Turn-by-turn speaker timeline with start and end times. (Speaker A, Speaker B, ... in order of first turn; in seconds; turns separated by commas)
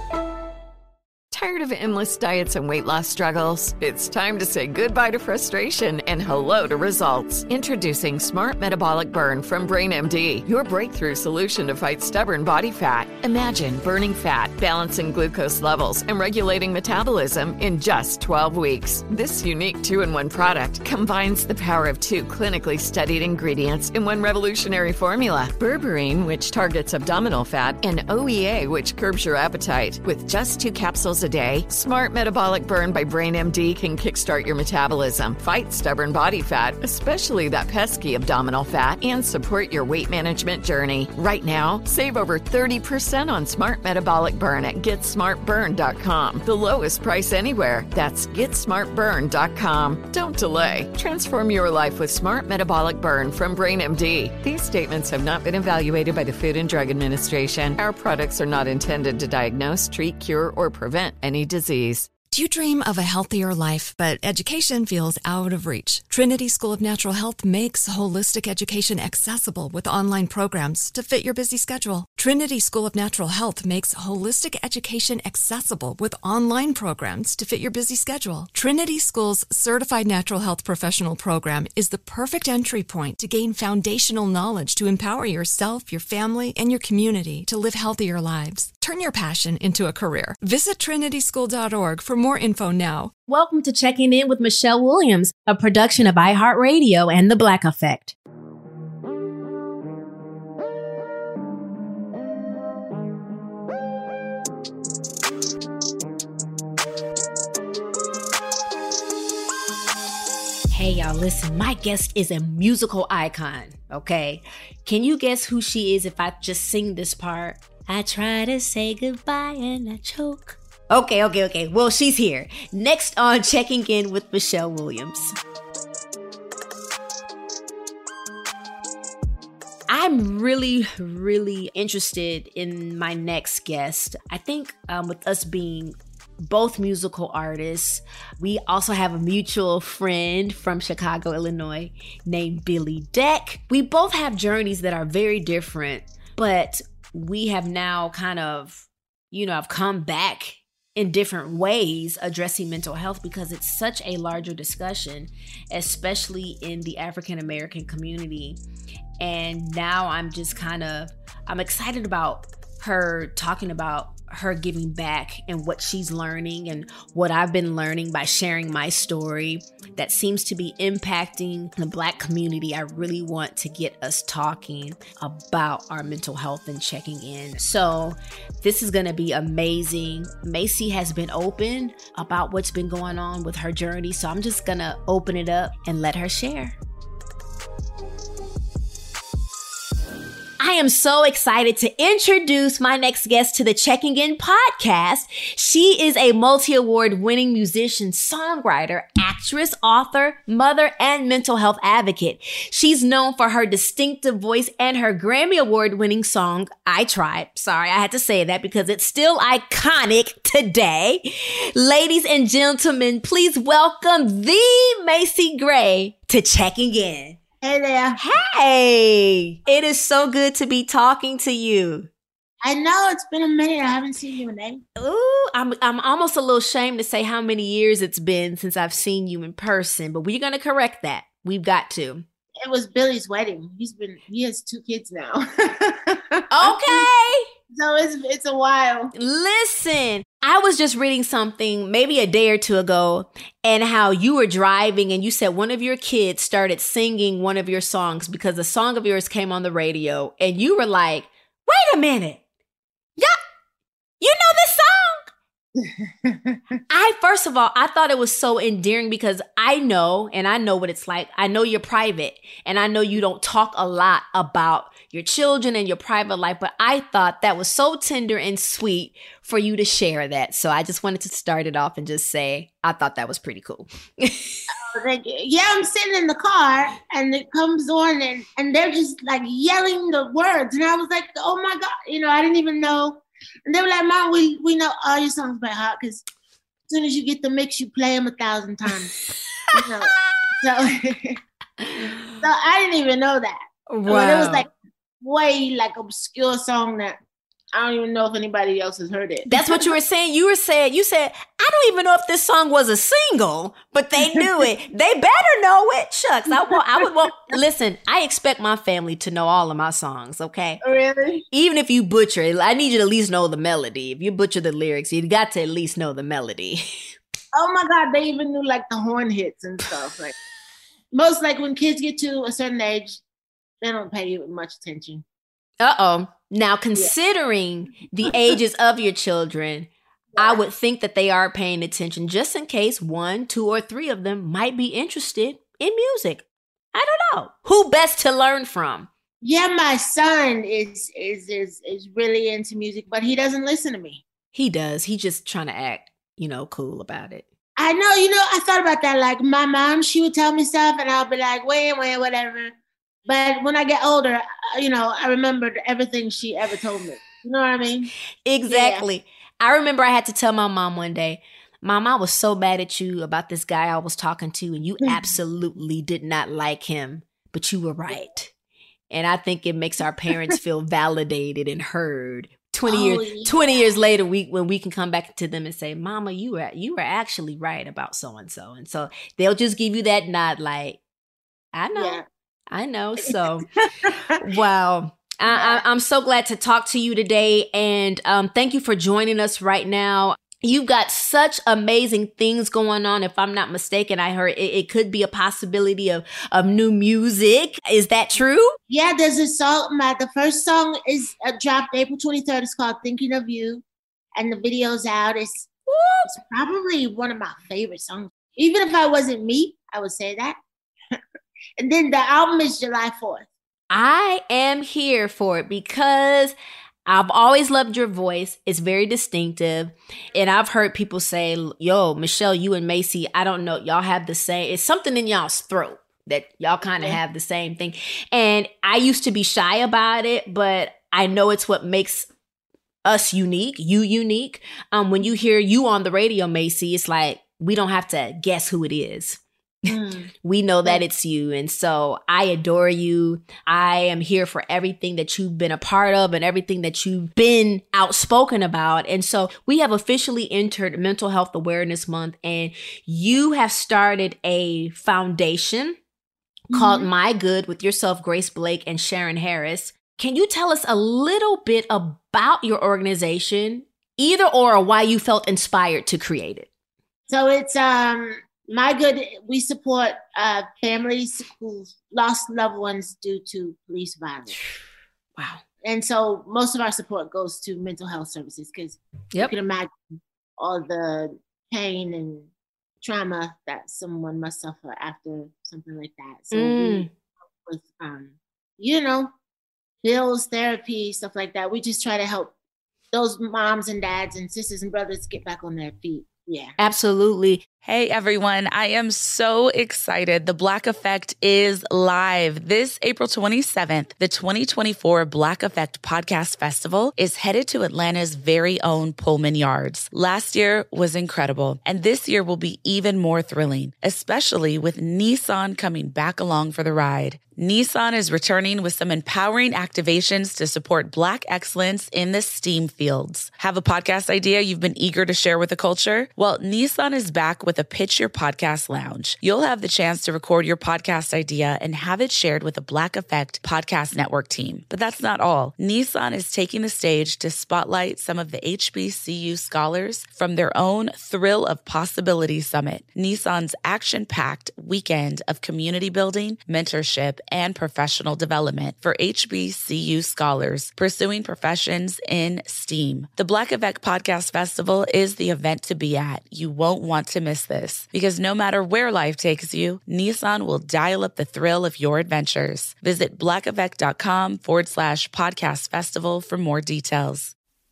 Speaker A: 1.3-62.1, Speaker B: 62.2-93.1, Speaker C: 93.3-98.1, Speaker C: 110.7-125.4, Speaker C: 129.9-158.6, Speaker C: 159.2-186.8, Speaker C: 190.6-217.4, Speaker D: 217.6-218.2, Speaker C: 218.2-222.1, Speaker D: 222.6-224.8, Speaker C: 225.0-232.2, Speaker D: 232.6-237.1, Speaker C: 236.5-237.4, Speaker D: 237.7-239.1, Speaker C: 239.1-252.4, Speaker C: 254.2-255.3, Speaker D: 255.8-256.8, Speaker C: 256.9-274.6, Speaker D: 274.7-286.2, Speaker D: 286.9-289.1, Speaker D: 289.7-291.4, Speaker C: 291.8-292.2, Speaker D: 292.4-294.7, Speaker C: 293.9-294.7, Speaker D: 295.2-297.2, Speaker D: 297.7-299.8, Speaker C: 299.5-310.8, Speaker D: 310.8-311.4, Speaker C: 311.5-317.1, Speaker D: 317.5-320.3, Speaker D: 321.1-323.2, Speaker D: 323.8-325.2, Speaker C: 325.8-339.1, Speaker D: 339.4-344.2, Speaker C: 344.5-347.4, Speaker D: 347.8-352.7, Speaker D: 353.2-358.1, Speaker C: 358.4-368.5, Speaker D: 358.7-359.0, Speaker C: 369.1-381.0, Speaker D: 372.9-373.6, Speaker C: 381.7-382.2, Speaker D: 381.9-382.2, Speaker C: 382.7-383.7, Speaker D: 383.8-384.3, Speaker C: 384.3-398.8, Speaker D: 385.5-385.8, Speaker D: 398.9-403.8, Speaker D: 404.3-405.7, Speaker C: 405.9-406.3, Speaker D: 406.3-410.6, Speaker D: 411.8-413.5, Speaker C: 413.9-432.3, Speaker D: 426.9-427.2, Speaker C: 433.0-456.0, Speaker D: 439.9-440.3, Speaker D: 456.7-457.1, Speaker C: 456.7-466.7, Speaker D: 467.3-474.6, Speaker C: 475.4-475.6, Speaker D: 475.8-479.9, Speaker D: 480.6-482.5, Speaker D: 483.0-487.1, Speaker C: 486.5-487.1, Speaker D: 487.6-489.3, Speaker D: 490.0-492.5, Speaker D: 493.1-496.7, Speaker C: 496.8-497.6, Speaker E: 497.8-567.5